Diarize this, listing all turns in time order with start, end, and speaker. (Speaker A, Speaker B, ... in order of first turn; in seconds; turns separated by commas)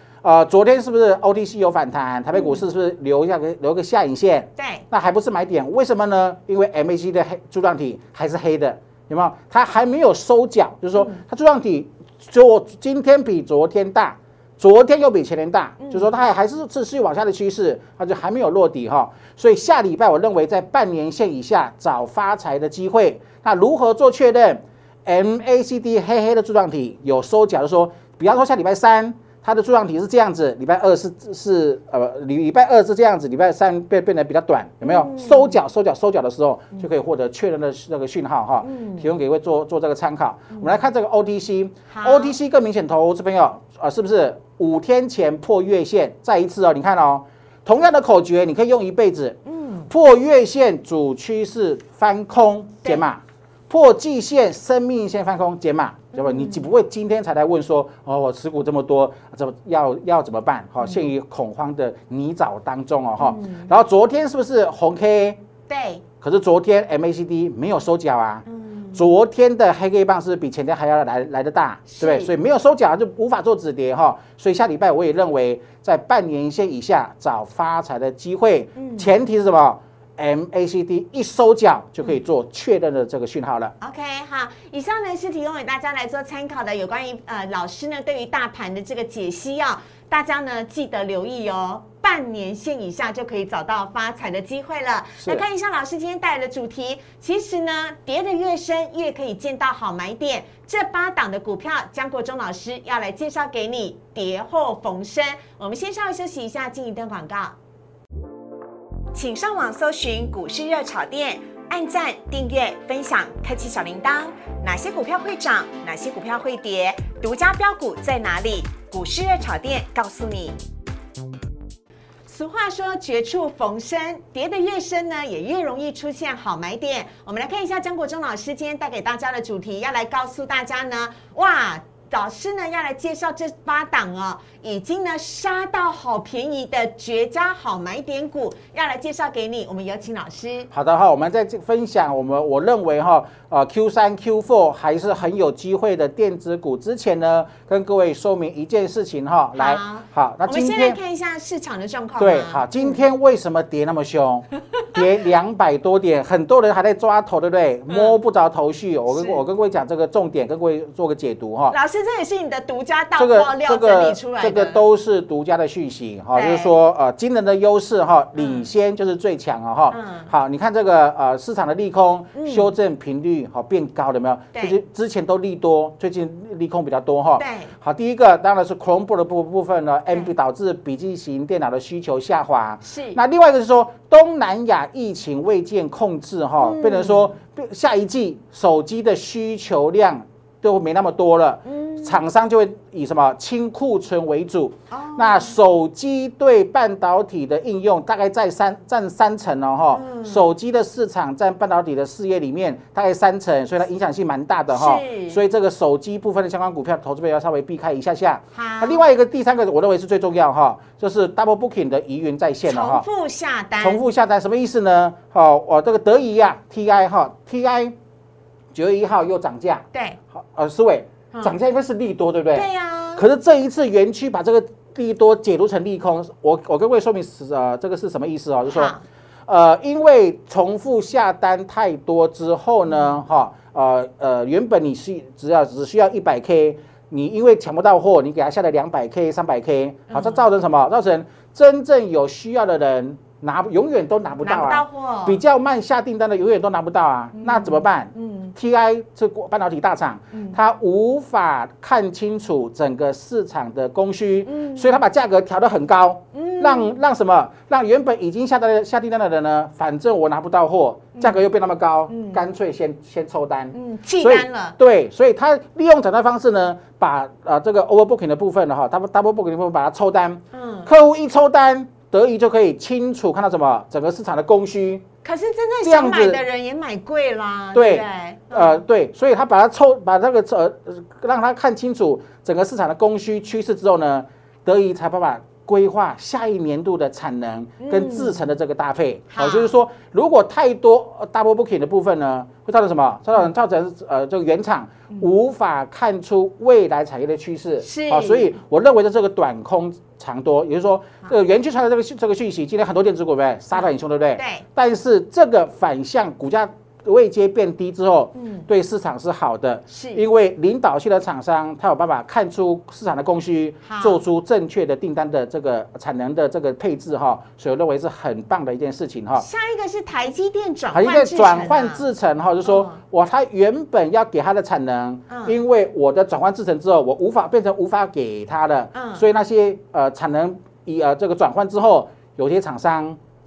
Speaker A: 0.2-49.4, Speaker B: 2.3-2.6, Speaker B: 4.6-4.8, Speaker B: 10.9-11.2, Speaker B: 15.8-16.1, Speaker B: 34.8-35.6, Speaker B: 38.6-39.1, Speaker B: 41.9-42.4, Speaker B: 49.5-49.9, Speaker A: 49.9-65.4, Speaker B: 56.1-56.6, Speaker B: 63.2-63.7, Speaker B: 65.7-66.0, Speaker A: 66.2-83.7, Speaker B: 68.5-69.0, Speaker B: 71.9-72.3, Speaker B: 78.8-79.1, Speaker B: 83.8-107.5, Speaker A: 95.2-95.4, Speaker B: 109.1-120.6, Speaker B: 122.3-140.7, Speaker A: 140.7-151.0, Speaker B: 149.5-153.0, Speaker A: 152.2-161.8, Speaker B: 157.9-158.1, Speaker B: 159.1-159.4, Speaker B: 161.7-164.8, Speaker A: 163.2-213.0, Speaker B: 166.3-166.8, Speaker B: 168.4-168.7, Speaker B: 169.9-170.3, Speaker B: 172.3-172.7, Speaker B: 177.4-177.7, Speaker B: 182.8-183.2, Speaker B: 186.6-187.3, Speaker B: 191.7-192.2, Speaker B: 194.9-195.6, Speaker B: 199.9-200.5, Speaker B: 204.7-205.4, Speaker B: 208.5-209.0, Speaker B: 212.6-214.0, Speaker A: 213.8-217.9, Speaker A: 218.7-228.9, Speaker B: 219.9-220.2, Speaker B: 222.5-223.2, Speaker B: 228.7-229.0, Speaker A: 229.5-275.0, Speaker B: 232.9-233.2, Speaker B: 240.1-240.4, Speaker B: 244.4-245.4, Speaker B: 247.3-248.5, Speaker B: 250.3-250.6, Speaker B: 254.4-255.0, Speaker B: 256.3-257.0, Speaker B: 261.1-261.4, Speaker B: 262.1-262.4, Speaker B: 263.7-264.8, Speaker B: 270.5-270.9, Speaker B: 275.2-278.8, Speaker A: 275.8-276.4, Speaker A: 277.7-319.4, Speaker B: 287.8-288.4, Speaker B: 289.3-289.8, Speaker B: 297.8-298.6, Speaker B: 304.4-304.6, Speaker B: 308.4-308.7, Speaker B: 309.9-310.2, Speaker B: 313.9-314.2, Speaker B: 319.4-322.1, Speaker A: 320.9-333.2, Speaker B: 322.6-323.0, Speaker B: 325.3-325.6, Speaker B: 328.9-329.2